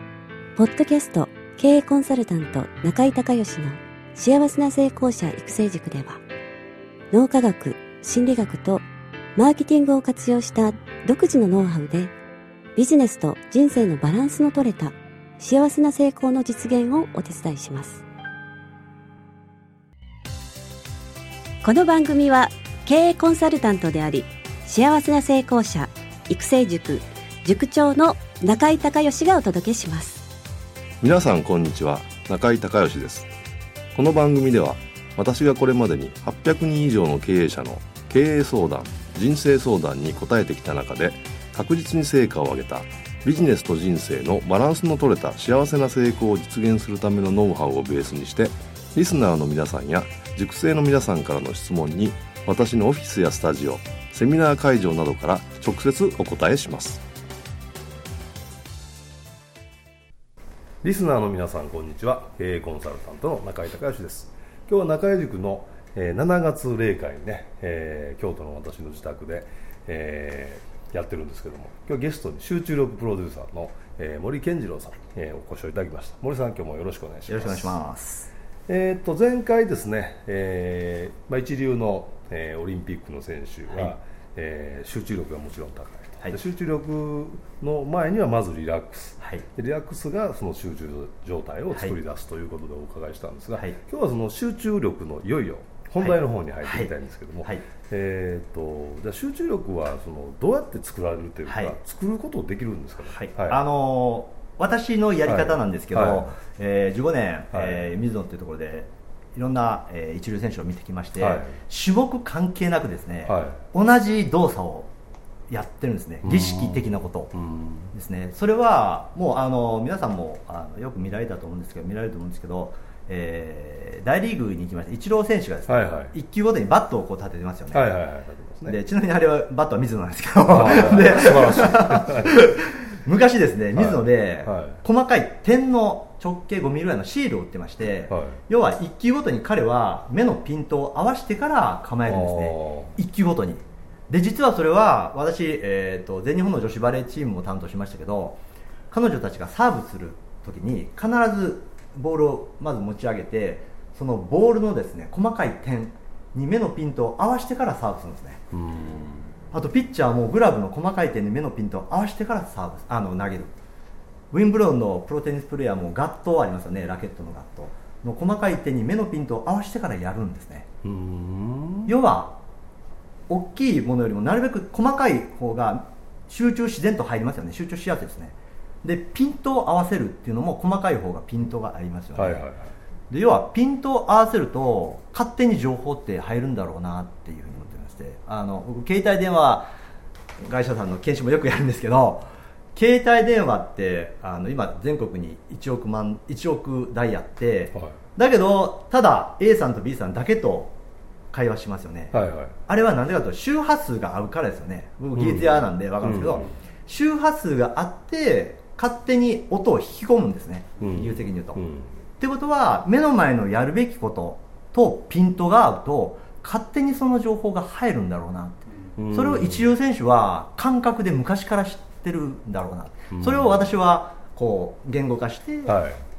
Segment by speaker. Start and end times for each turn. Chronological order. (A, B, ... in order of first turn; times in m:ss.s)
0:00.6-0:06.2 A
0:07.1-0:08.8 A
0:09.4-0:12.1 A
0:12.8-0:18.0 A
0:21.6-0:30.2 A
0:31.0-0:33.3 B
0:34.0-0:57.0 B
1:00.8-1:17.8 B
1:17.3-1:18.3 C
1:18.7-1:43.6 B
1:23.7-1:23.9 C
1:29.2-1:29.5 C
1:36.0-1:36.9 C
1:37.4-1:37.7 C
1:41.5-1:41.8 C
1:43.0-1:54.9 C
1:45.3-1:46.4 B
1:47.5-1:48.0 B
1:51.2-1:51.6 B
1:53.3-1:53.6 B
1:55.5-1:57.4 C
1:56.2-1:57.9 B
1:57.9-2:08.0 C
2:05.7-2:06.1 B
2:07.7-2:08.8 B
2:08.7-2:28.4 C
2:10.5-2:12.4 B
2:13.8-2:14.8 B
2:18.1-2:18.4 B
2:22.1-2:23.0 B
2:28.9-2:38.4 C
2:38.5-2:39.3 B
2:39.5-2:43.5 C
2:44.3-2:50.7 C
2:50.8-2:52.0 B
2:51.9-2:52.4 C
2:53.3-3:02.4 C
3:02.2-3:02.7 B
3:03.1-3:09.7 C
3:10.4-3:20.7 C
3:21.3-3:31.6 C
3:22.1-3:22.5 B
3:25.1-3:26.5 B
3:30.8-3:31.9 B
3:32.2-3:45.8 C
3:39.0-3:39.7 B
3:43.1-3:43.6 B
3:45.7-3:46.0 B